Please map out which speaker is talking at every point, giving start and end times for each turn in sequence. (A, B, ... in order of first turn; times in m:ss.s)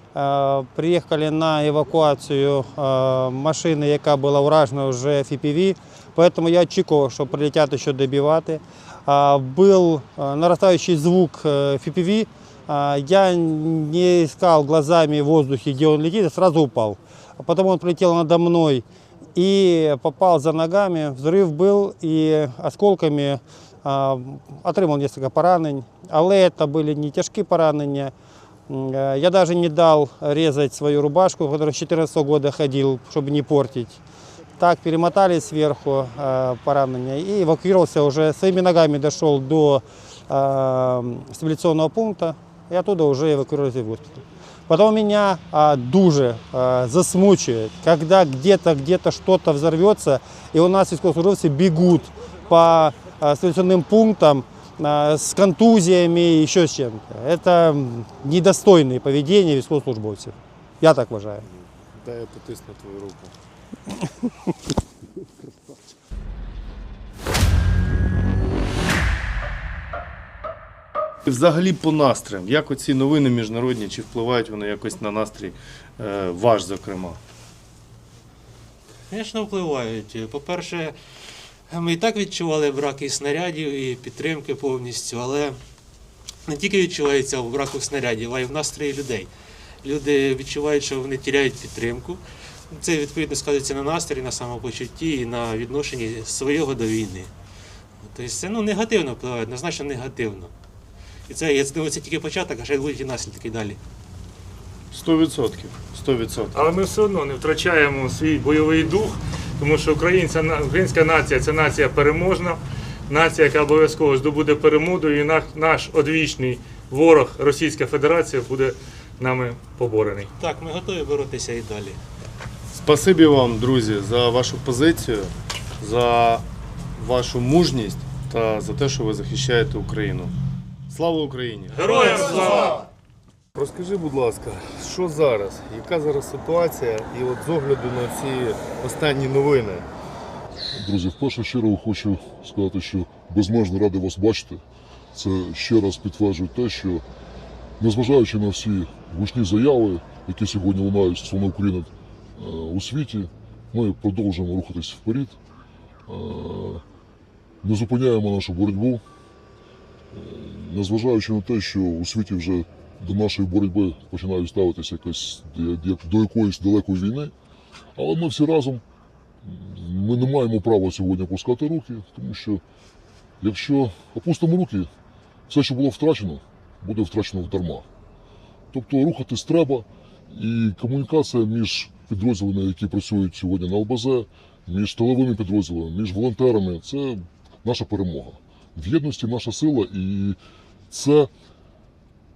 0:00.2-0:28.1 A
0:28.7-0:34.0 A
0:34.6-1:01.4 A
1:02.0-1:03.3 B
1:11.2-1:17.2 B
1:19.1-1:21.0 C
1:21.7-1:25.6 C
1:26.5-1:29.3 C
1:29.8-1:37.3 C
1:38.0-1:40.5 C
1:41.3-1:43.8 C
1:44.9-1:46.6 B
1:46.5-2:00.3 D
2:00.4-2:02.0 C
2:02.8-2:06.4 B
2:07.0-2:10.3 B
2:10.9-2:12.8 B
2:11.8-2:12.7 D
2:13.6-2:19.9 B
2:20.7-2:24.6 E
2:25.1-2:27.0 E
2:27.8-2:35.4 E
2:36.1-2:36.8 E
2:37.6-2:39.0 E
2:40.1-2:47.3 E
2:48.0-2:48.8 E
2:49.4-2:52.6 E
2:53.4-2:54.9 E
2:55.5-2:57.9 E
2:58.7-3:10.4 E
3:10.9-3:11.3 E